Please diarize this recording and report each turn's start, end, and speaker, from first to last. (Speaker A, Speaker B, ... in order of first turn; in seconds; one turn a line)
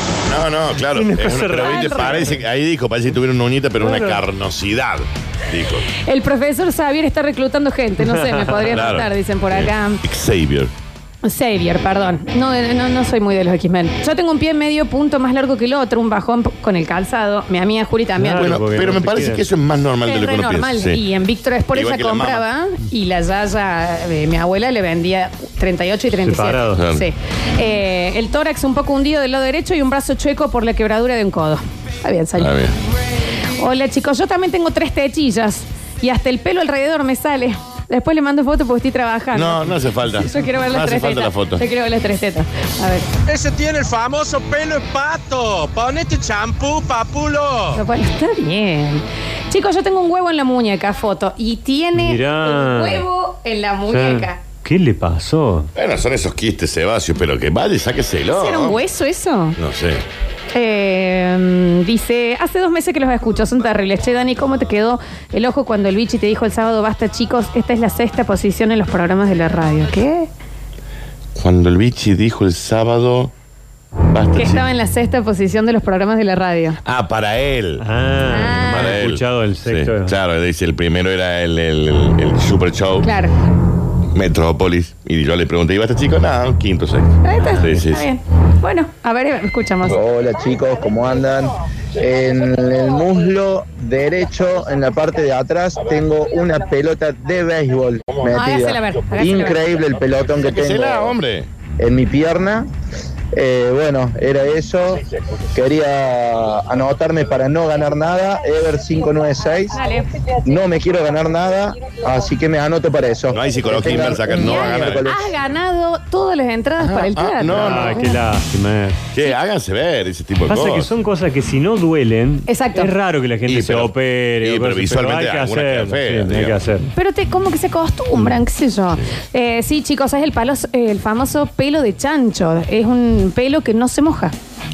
Speaker A: 0.3-5.9
Speaker B: 0.9-2.4
Speaker C: 1.6-2.3
Speaker B: 3.8-4.2
Speaker C: 6.0-10.0
Speaker B: 8.1-8.8
Speaker A: 8.7-10.7
Speaker C: 11.2-18.5
Speaker B: 18.2-19.4
Speaker A: 18.3-21.0
Speaker C: 20.0-32.5
Speaker A: 21.7-22.4
Speaker B: 26.2-26.8
Speaker A: 26.7-27.0
Speaker A: 32.4-32.7
Speaker C: 33.6-43.1
Speaker A: 39.3-41.6
Speaker D: 43.2-47.8
Speaker C: 47.7-54.4
Speaker B: 52.0-53.0
Speaker B: 53.9-55.7
Speaker A: 55.8-58.8
Speaker C: 58.3-59.6
Speaker A: 59.6-60.0
Speaker C: 60.5-70.3
Speaker A: 71.3-73.3
Speaker A: 74.1-74.6
Speaker C: 74.3-76.8
Speaker A: 76.8-83.1
Speaker B: 77.8-80.2
Speaker C: 78.3-79.0
Speaker C: 83.0-83.3
Speaker A: 84.1-88.0
Speaker C: 87.2-90.0
Speaker E: 90.0-101.2
Speaker C: 98.3-99.8
Speaker A: 100.3-101.5
Speaker E: 101.8-102.7
Speaker E: 103.3-109.8
Speaker C: 109.7-110.0
Speaker E: 110.4-115.3
Speaker A: 113.3-115.0
Speaker C: 114.2-118.2
Speaker A: 116.8-118.0
Speaker B: 117.5-119.0
Speaker A: 119.1-120.9
Speaker B: 120.5-126.9
Speaker C: 122.5-122.9
Speaker A: 123.5-126.6
Speaker C: 126.9-134.3